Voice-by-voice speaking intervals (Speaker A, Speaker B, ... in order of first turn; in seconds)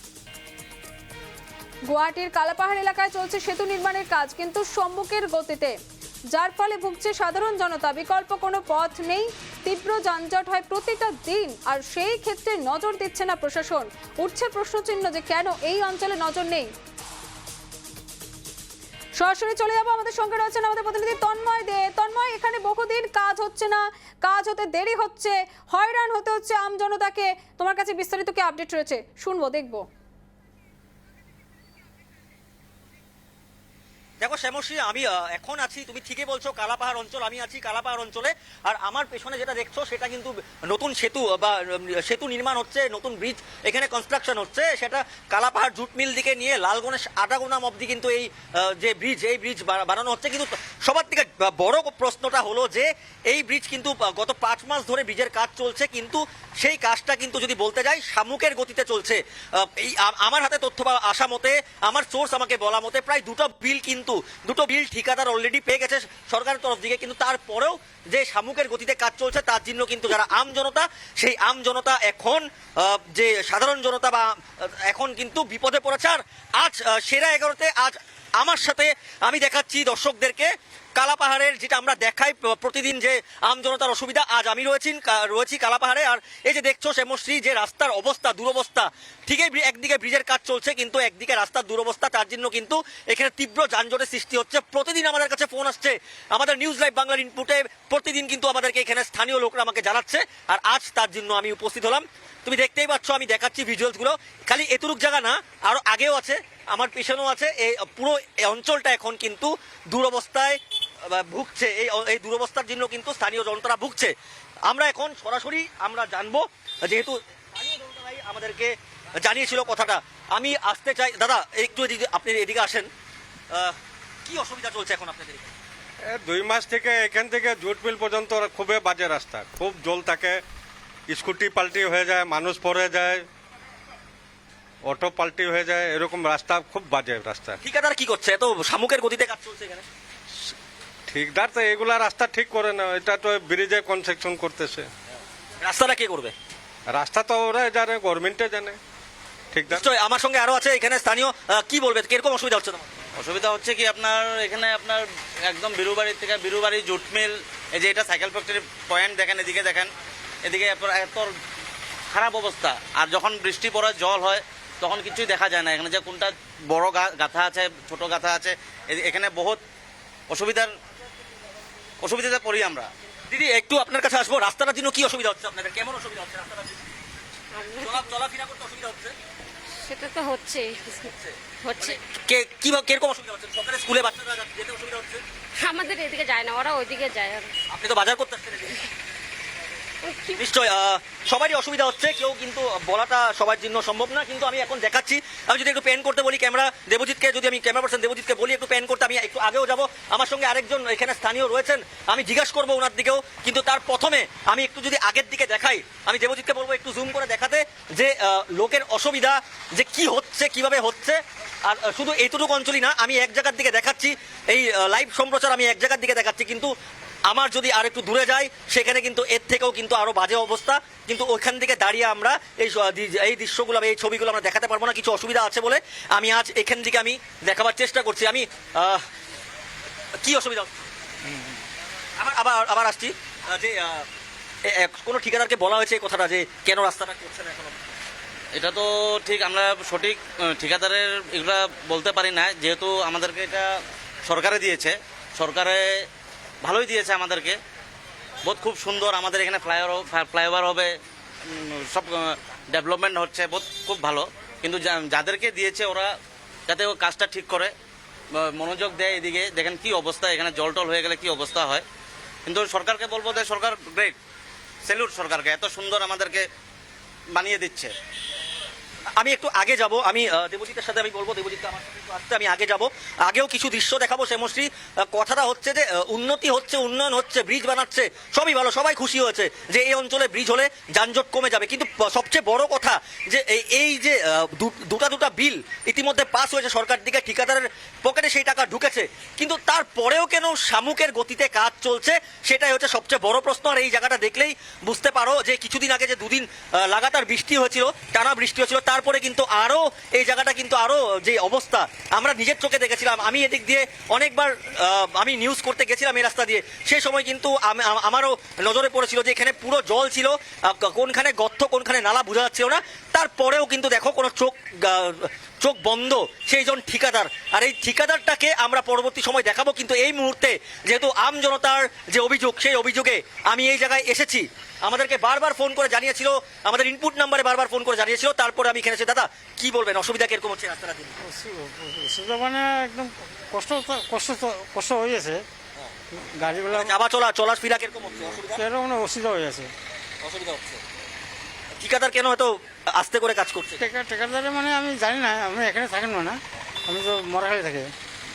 Speaker A: 1.9-5.8, 6.3-16.7, 19.2-29.8
Speaker B: 34.2-114.1, 114.7-122.9, 124.2-125.5, 137.6-139.8, 145.6-146.3, 149.7-152.9, 173.3-176.9, 177.8-179.1, 181.1-185.2, 187.7-188.8, 190.4-216.7, 217.3-229.0, 230.2-230.8, 232.2-234.1, 234.7-237.8, 269.2-331.1, 336.7-338.6, 340.2-340.8, 341.8-343.8
Speaker C: 126.1-130.4, 131.1-133.2, 134.8-137.6, 141.1-144.9, 146.9-148.8, 149.5-149.8
Speaker D: 153.2-159.9, 160.4-161.3, 162.1-169.6, 170.3-170.7, 172.0-172.9, 238.5-243.7, 244.2-246.1, 246.6-247.6, 248.4-250.9, 251.5-256.1, 256.7-257.7, 258.3-261.9, 262.4-264.1, 264.8-266.5, 267.3-267.9
Speaker E: 177.5-178.0, 179.8-182.0, 185.6-187.5, 190.1-190.4
Speaker F: 331.2-335.4, 336.1-336.9, 338.3-339.7, 343.8-347.9